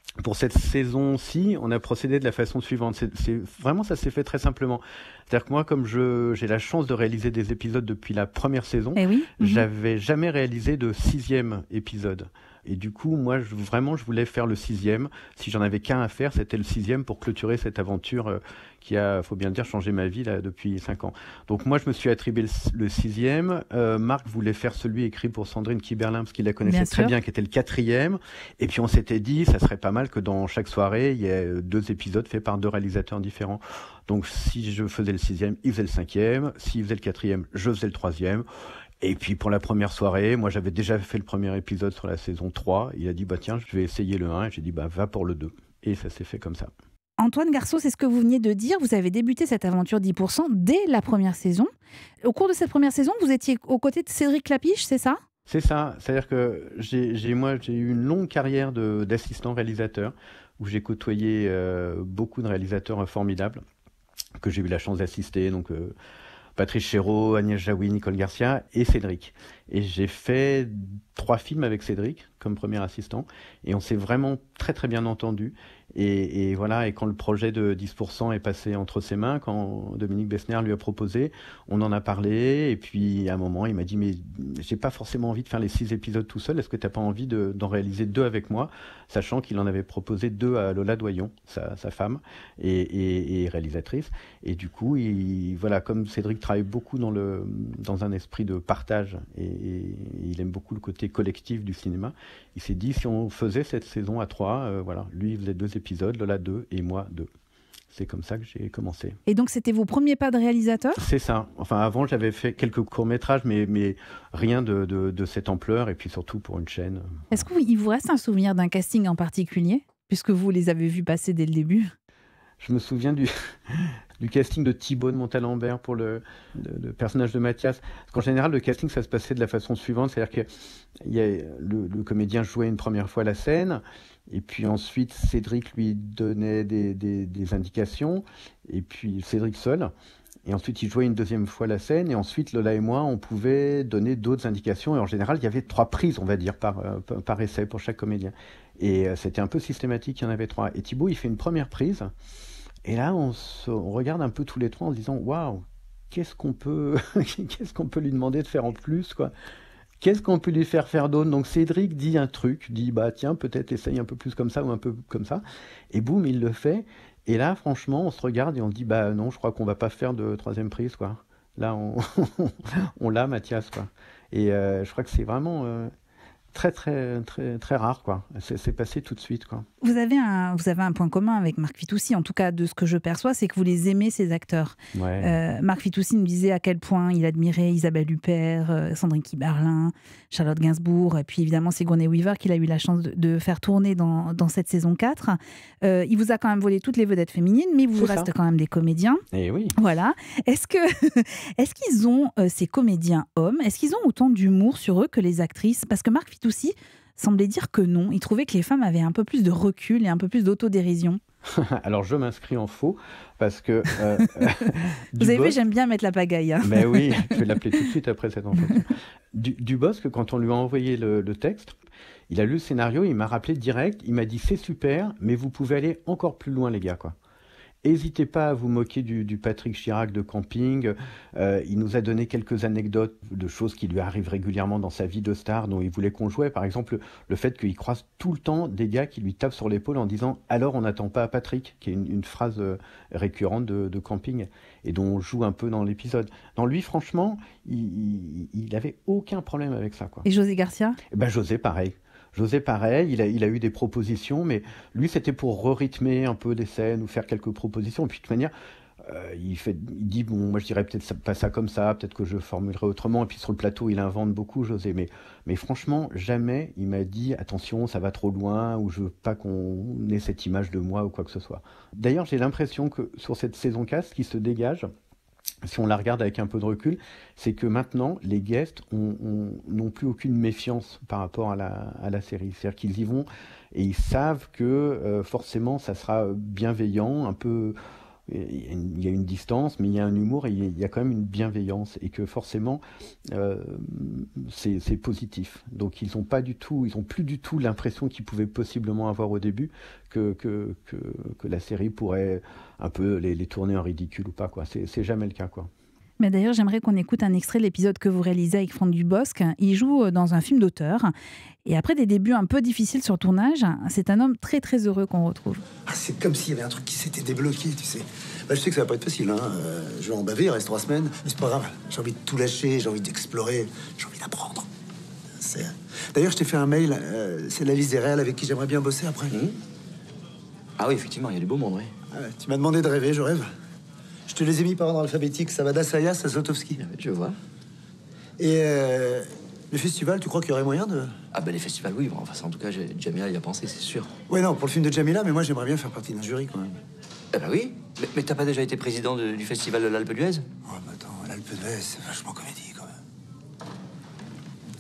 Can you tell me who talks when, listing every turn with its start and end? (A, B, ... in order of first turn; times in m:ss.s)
0:00.2-0:38.5 A
0:09.0-0:09.6 B
0:26.7-0:27.1 B
0:39.0-0:46.7 A
0:47.2-0:51.7 B
0:52.2-0:55.2 B
0:55.5-1:03.6 A
1:04.4-1:05.9 A
1:06.6-1:47.3 A
1:47.9-1:49.2 A
1:49.3-1:51.0 B
1:51.0-1:57.2 A
1:57.3-2:01.9 B
2:02.6-2:10.5 A
2:11.0-2:19.9 A
2:20.5-2:32.1 A
2:32.8-2:39.3 A
2:40.0-2:55.9 A
2:56.5-2:59.6 A
2:59.8-3:19.2 B
3:04.9-3:05.3 A
3:18.0-3:18.3 A
3:19.3-3:19.7 A
3:19.8-3:31.2 B
3:31.5-3:35.6 A
3:35.2-3:37.3 B
3:36.6-3:41.8 A
3:42.3-3:47.2 A
3:47.8-4:10.2 A
4:10.2-4:11.0 B
4:11.1-4:34.9 A
4:35.6-4:47.8 A
4:48.3-5:05.7 A
5:06.2-5:11.1 B
5:11.6-5:15.6 B
5:15.9-5:24.7 C
5:25.4-5:29.4 C
5:29.3-5:29.6 D
5:30.8-5:31.9 D
5:32.1-5:33.5 C
5:34.3-5:36.8 C
5:36.8-5:37.4 D
5:38.4-5:41.2 C
5:41.3-5:44.1 D
5:44.3-5:46.8 C
5:47.3-5:50.4 D
5:50.7-5:52.9 C